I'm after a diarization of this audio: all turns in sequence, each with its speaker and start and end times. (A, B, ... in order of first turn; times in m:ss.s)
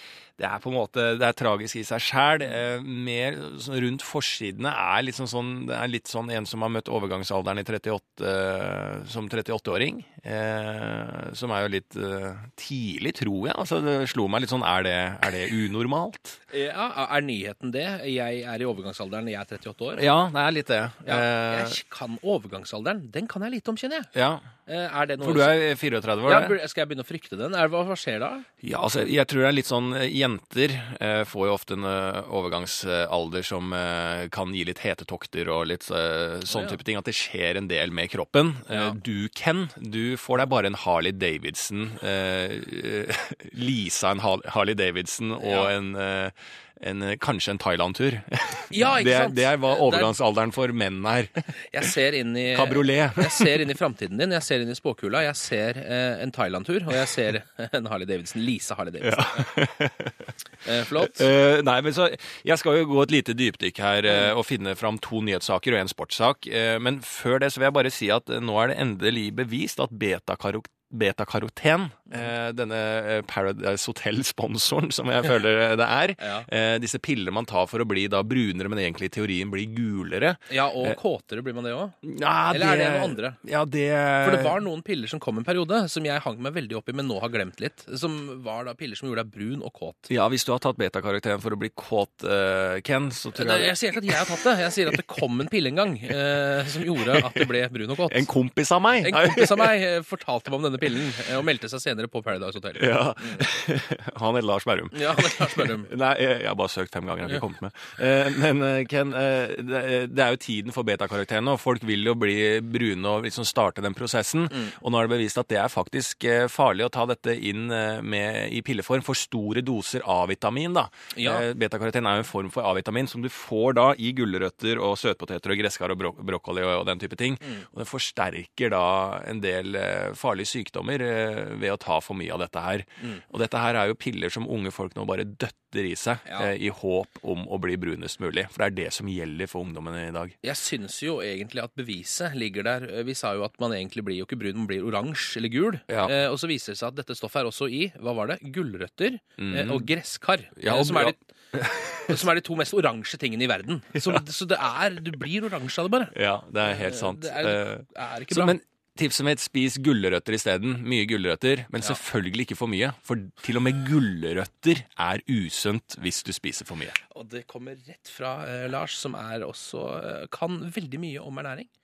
0:00.4-0:16.4 A
0:16.5-0:20.1 B
0:20.0-0:21.8 A
0:21.0-0:24.1 B
0:24.1-0:24.5 A
0:24.6-0:25.6 B
0:25.2-0:26.5 A
0:26.2-0:28.5 B
0:28.6-0:51.4 A
0:36.5-0:36.8 B
0:38.7-0:39.0 B
0:45.4-0:45.7 B
0:48.7-0:50.1 B
0:51.7-0:59.5 B
0:52.5-0:53.6 A
0:59.0-1:00.3 A
1:00.6-1:01.3 B
1:01.0-1:21.0 A
1:16.2-1:16.5 B
1:20.5-1:22.0 B
1:22.0-1:24.6 A
1:22.5-1:23.4 B
1:24.2-1:30.1 B
1:30.1-1:35.0 A
1:33.4-1:38.3 B
1:37.0-1:37.4 A
1:38.1-1:39.8 A
1:39.0-1:43.5 B
1:42.8-2:20.3 A
1:44.9-1:45.9 B
2:01.1-2:01.4 B
2:20.4-2:31.2 B
2:25.9-2:26.1 A
2:29.4-2:29.9 A
2:30.6-2:32.2 A
2:31.9-2:38.6 B
2:36.1-2:47.0 A
2:47.1-2:51.7 B